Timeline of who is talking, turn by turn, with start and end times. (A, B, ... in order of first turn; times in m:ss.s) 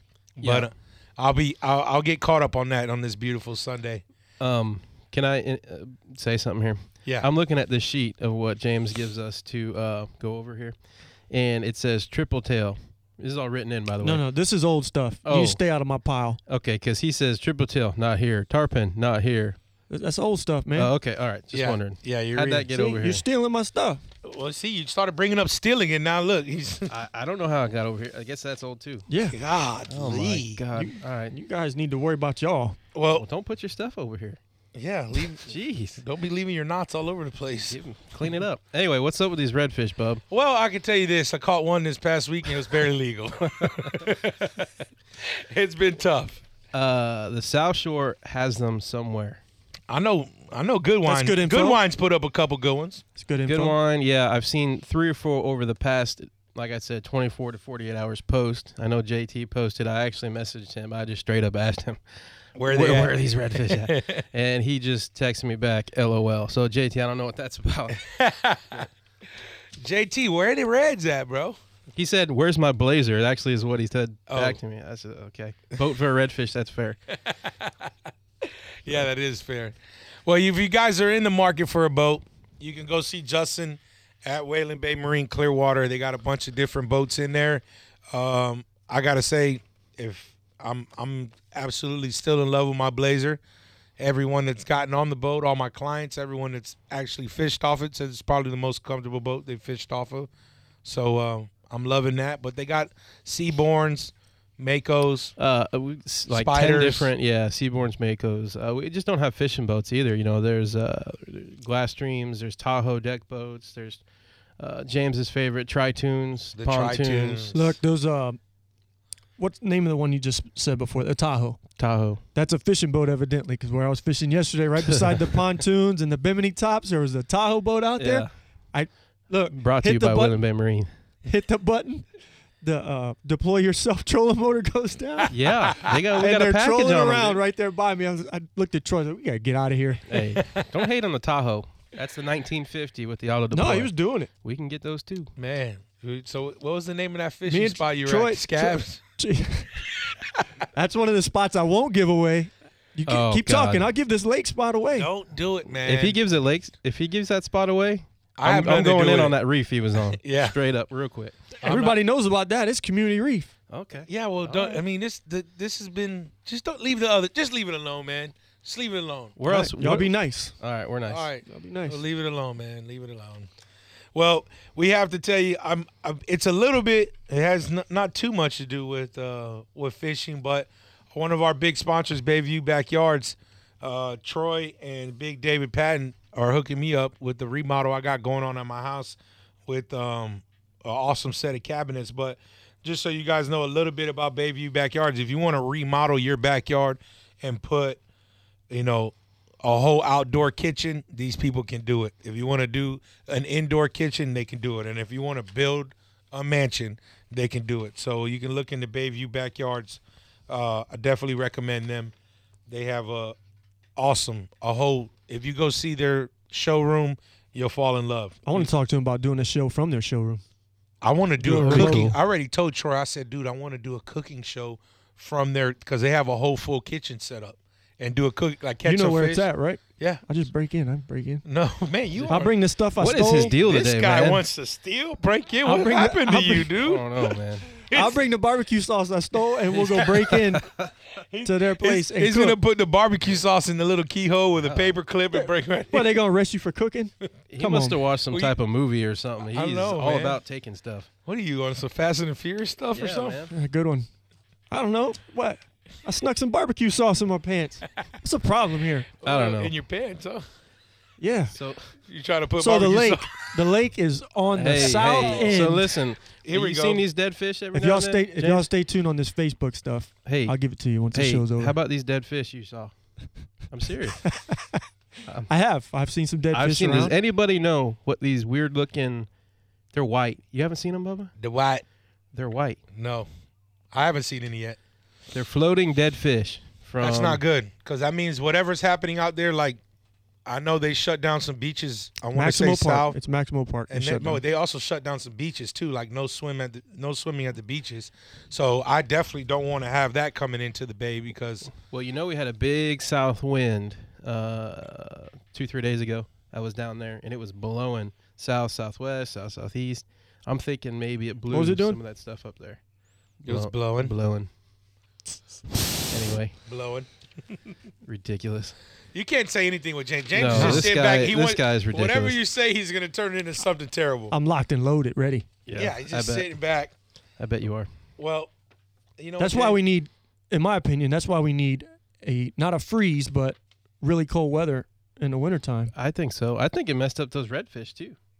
0:00.4-0:04.0 A
0:00.4-0:00.7 B
0:04.4-0:10.7 B
0:11.3-0:14.2 B
0:14.0-0:16.4 C
0:15.2-0:15.6 B
0:16.5-0:19.6 B
0:19.9-0:20.9 C
0:20.8-0:23.2 B
0:21.5-0:22.7 A
0:22.7-0:24.0 C
0:24.2-0:26.9 A
0:26.9-0:29.1 B
0:29.1-0:29.4 C
0:29.3-0:30.6 A
0:29.9-0:31.3 B
0:30.7-0:32.8 C
0:32.9-0:33.2 A
0:33.1-0:34.4 B
0:34.7-0:37.8 A
0:35.4-0:36.0 B
0:37.7-0:40.2 B
0:40.3-0:46.4 A
0:43.5-0:44.0 B
0:46.7-0:49.4 B
0:49.9-0:53.0 A
0:51.0-0:51.8 C
0:53.2-0:53.7 C
0:53.4-1:02.0 B
1:02.6-1:04.2 A
1:02.6-1:08.1 B
1:08.0-1:08.9 A
1:09.8-1:11.6 A
1:11.9-1:17.0 B
1:14.3-1:14.6 A
1:17.2-1:17.9 A
1:18.4-1:33.4 A
1:34.0-1:40.3 A
1:40.8-1:45.3 A
1:45.4-1:54.0 B
1:46.3-1:47.1 A
1:54.6-1:57.5 B
1:56.6-1:57.7 A
1:57.5-1:58.4 C
1:59.4-2:01.6 C
2:01.8-2:02.2 B
2:02.3-2:10.4 C
2:04.9-2:05.3 B
2:08.0-2:08.3 B
2:09.5-2:10.9 B
2:11.2-2:12.1 C
2:12.6-2:20.0 C
2:15.3-2:17.4 B
2:20.1-2:25.3 B
2:23.5-2:24.3 C
2:25.4-2:29.0 A
2:27.5-2:29.7 C
2:30.7-2:35.1 C
2:33.1-2:33.9 B
2:34.9-2:36.2 A
2:35.8-2:41.4 B
2:38.4-2:39.4 A
2:40.2-2:40.5 A
2:41.6-2:42.0 A
2:41.6-2:43.5 C
2:43.7-2:44.7 B
2:44.1-2:49.4 A
2:49.4-2:51.3 B
2:49.5-2:50.5 C
2:51.1-2:53.5 A
2:51.4-2:52.0 C
2:54.1-3:18.0 A
3:18.7-3:32.1 A
3:32.7-3:33.4 A
3:34.0-3:38.7 A
3:38.4-3:40.4 C
3:41.0-3:50.2 A
3:41.4-3:42.1 C
3:41.6-3:42.2 B
3:48.8-3:51.4 C
3:51.4-3:52.5 A
3:52.2-3:52.4 B
3:52.3-3:53.5 C
3:53.0-3:54.4 B
3:53.4-3:58.2 A
3:55.6-3:56.7 C
3:56.8-3:57.7 B
3:57.9-4:00.6 C
3:59.8-4:00.9 B
4:01.3-4:06.1 A
4:01.4-4:02.6 C
4:04.6-4:04.9 B
4:05.9-4:08.0 C
4:07.5-4:11.1 B
4:09.5-4:10.4 A
4:11.2-4:13.4 A
4:12.9-4:13.5 B
4:13.5-4:14.1 C
4:14.7-4:19.1 C
4:19.2-4:20.4 A
4:19.2-4:19.7 B
4:21.2-4:21.5 C
4:21.5-4:21.9 B
4:22.1-4:23.5 A
4:22.6-4:25.9 C
4:24.5-4:28.7 B
4:25.0-4:25.6 A
4:26.4-4:27.0 A
4:27.7-4:31.8 C
4:30.2-4:32.9 B
4:33.7-4:34.4 B
4:34.3-4:34.8 C
4:35.5-4:37.1 C
4:36.5-4:39.3 B
4:39.9-4:41.3 B
4:41.4-4:41.8 A
4:42.3-4:42.8 B
4:42.9-4:43.3 A
4:43.9-4:44.8 A
4:45.3-4:47.4 B
4:47.0-4:49.8 A
4:50.4-4:53.2 A
4:52.3-4:54.4 C
4:53.9-5:01.7 A
5:01.8-5:12.8 B
5:11.5-5:12.0 C
5:13.4-5:14.1 A
5:13.4-5:14.5 B
5:16.1-5:16.6 B
5:16.7-5:17.1 A
5:18.0-5:18.8 B
5:19.1-5:24.3 A
5:20.3-5:22.4 B
5:20.5-5:20.8 C
5:24.3-5:25.5 C
5:25.6-5:26.5 B
5:25.7-5:26.9 A
5:27.4-5:27.9 B
5:28.2-5:28.5 A
5:29.2-5:29.8 A
5:29.4-5:35.9 C
5:35.9-5:38.2 B